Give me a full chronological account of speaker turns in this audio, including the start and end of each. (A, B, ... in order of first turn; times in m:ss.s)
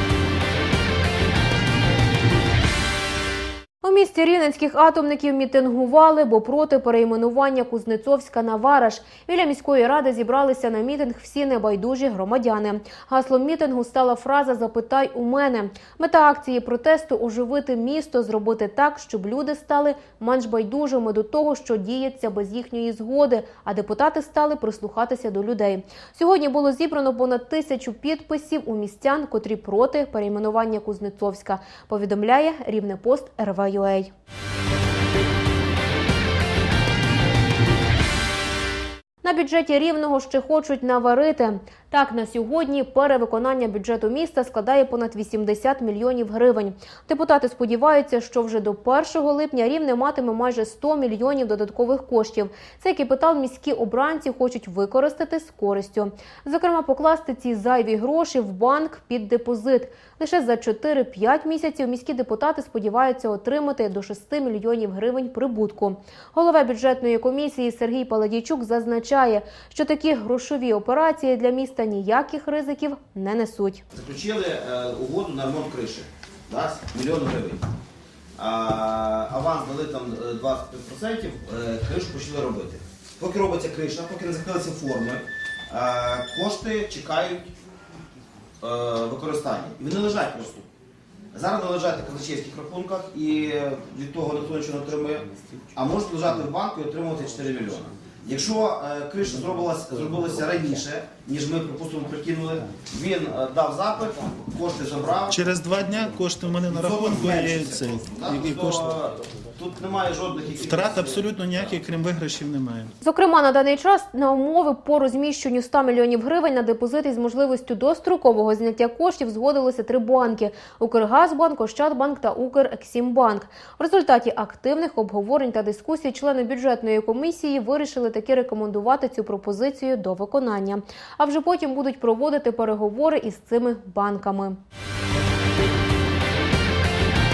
0:03.8-0:34.1 A
0:39.2-1:13.8 A
1:13.9-1:17.6 B
1:18.4-1:27.5 B
1:28.6-1:30.7 B
1:31.3-1:45.6 B
1:45.3-1:49.0 C
1:46.6-1:51.7 B
1:50.5-1:52.9 C
1:53.0-2:14.6 A